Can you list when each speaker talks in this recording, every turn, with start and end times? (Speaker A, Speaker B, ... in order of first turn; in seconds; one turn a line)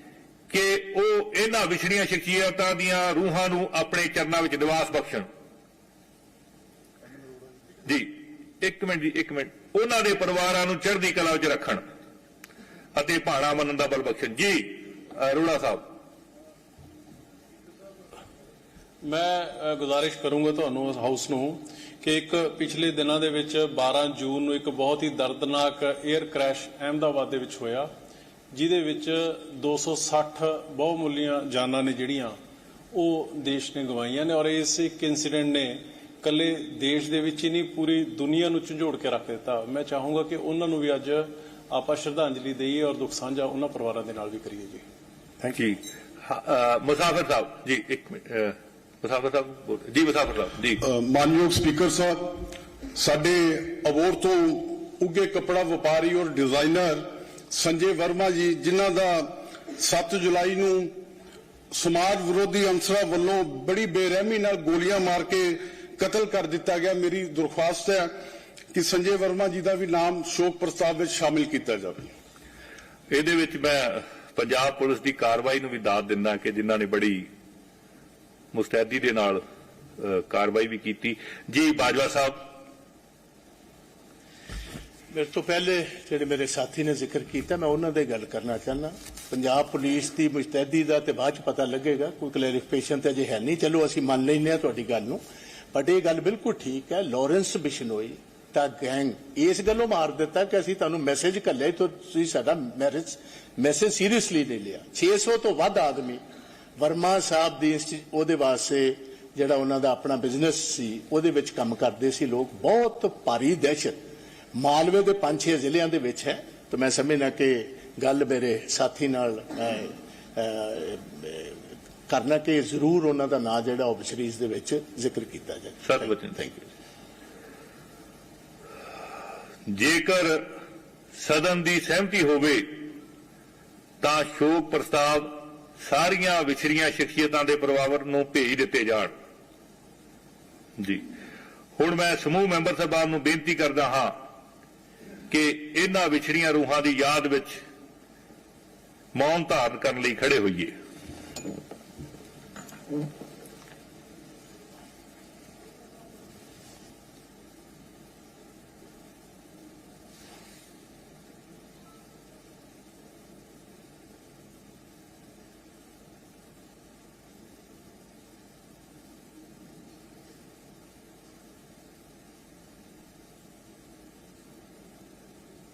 Speaker A: 0.5-5.3
Speaker A: 7.9-11.8
Speaker A: 12.9-15.8
Speaker B: 19.0-27.9
Speaker B: 28.5-32.4
Speaker B: 32.9-44.8
Speaker A: 45.5-50.8
Speaker C: 50.8-60.9
Speaker C: 61.7-68.1
Speaker C: 68.7-72.1
Speaker A: 73.1-77.3
Speaker A: 78.5-79.4
Speaker A: 80.0-82.4
Speaker D: 85.1-95.2
Speaker D: 95.7-106.2
Speaker D: 106.8-114.0
Speaker D: 114.6-126.7
Speaker A: 125.8-126.3
Speaker A: 129.7-130.4
Speaker A: 131.2-133.0
Speaker A: 134.0-139.1
Speaker A: 140.8-141.0
Speaker A: 141.8-144.2
Speaker A: 145.3-147.6
Speaker A: 149.2-150.7